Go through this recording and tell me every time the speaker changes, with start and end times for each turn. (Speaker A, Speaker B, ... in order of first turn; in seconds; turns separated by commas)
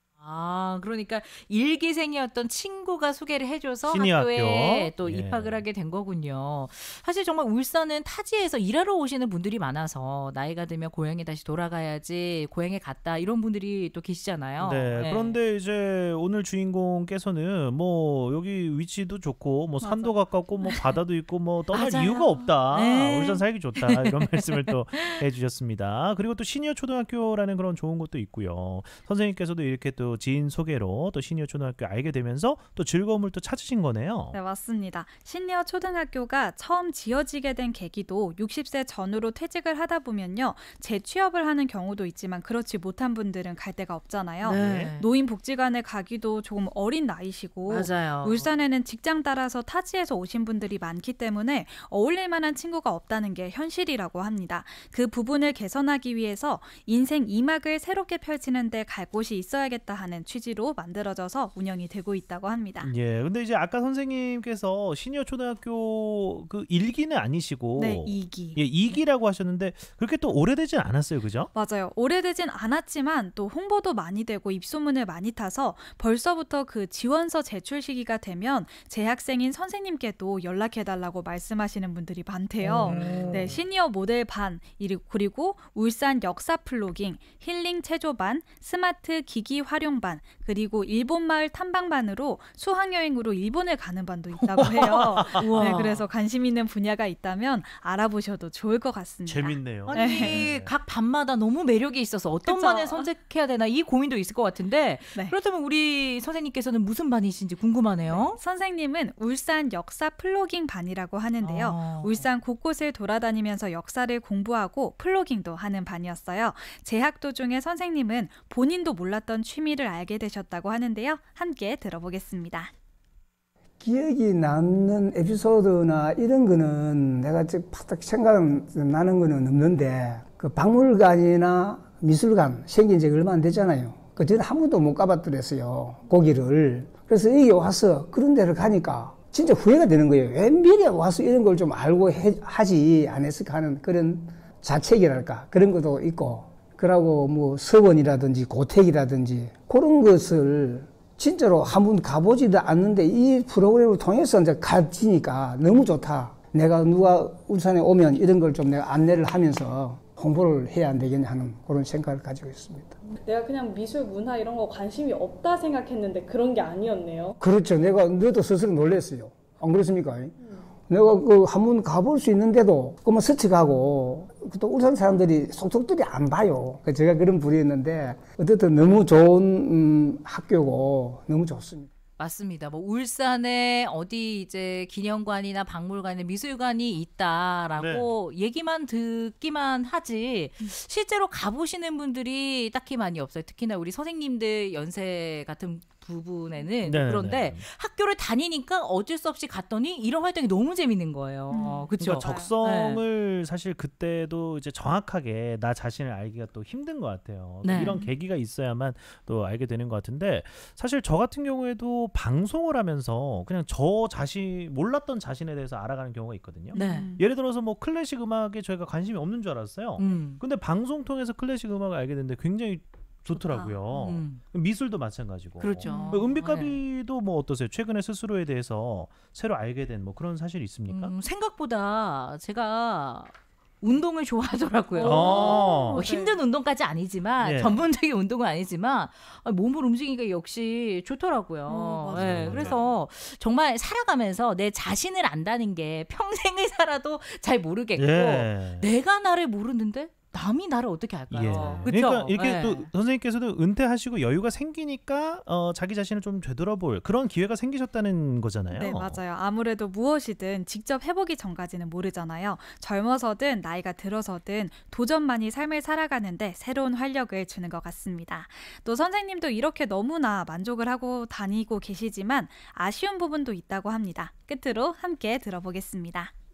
Speaker A: 0.2-15.4, Speaker B: 3.9-5.6, Speaker B: 14.6-34.4, Speaker A: 21.7-25.2, Speaker C: 34.3-62.9, Speaker B: 44.4-44.9, Speaker A: 44.4-45.0, Speaker A: 47.7-48.5, Speaker B: 62.8-71.5, Speaker C: 67.8-69.0, Speaker C: 71.5-100.4, Speaker A: 82.7-83.5, Speaker B: 82.9-83.4, Speaker B: 94.4-95.6, Speaker A: 95.3-96.0, Speaker B: 99.2-100.7, Speaker A: 99.9-108.4, Speaker C: 102.5-103.1, Speaker C: 108.1-122.7, Speaker A: 111.4-112.2, Speaker D: 123.8-163.0, Speaker E: 163.2-167.3, Speaker D: 167.4-170.3, Speaker D: 170.9-181.9, Speaker A: 182.2-203.0, Speaker B: 187.8-188.1, Speaker B: 196.8-197.7, Speaker C: 201.5-202.5, Speaker B: 201.9-231.1, Speaker A: 207.6-208.0, Speaker C: 207.8-208.1, Speaker C: 216.7-217.2, Speaker A: 216.7-217.1, Speaker A: 220.0-220.4, Speaker C: 223.3-223.8, Speaker A: 223.9-224.4, Speaker A: 225.6-226.8, Speaker C: 225.8-226.2, Speaker A: 230.9-252.9, Speaker C: 234.9-236.4, Speaker B: 235.0-236.1, Speaker B: 237.4-237.8, Speaker C: 241.7-242.8, Speaker B: 242.1-242.8, Speaker B: 247.9-248.9, Speaker B: 251.3-259.2, Speaker C: 251.5-251.9, Speaker C: 258.7-276.3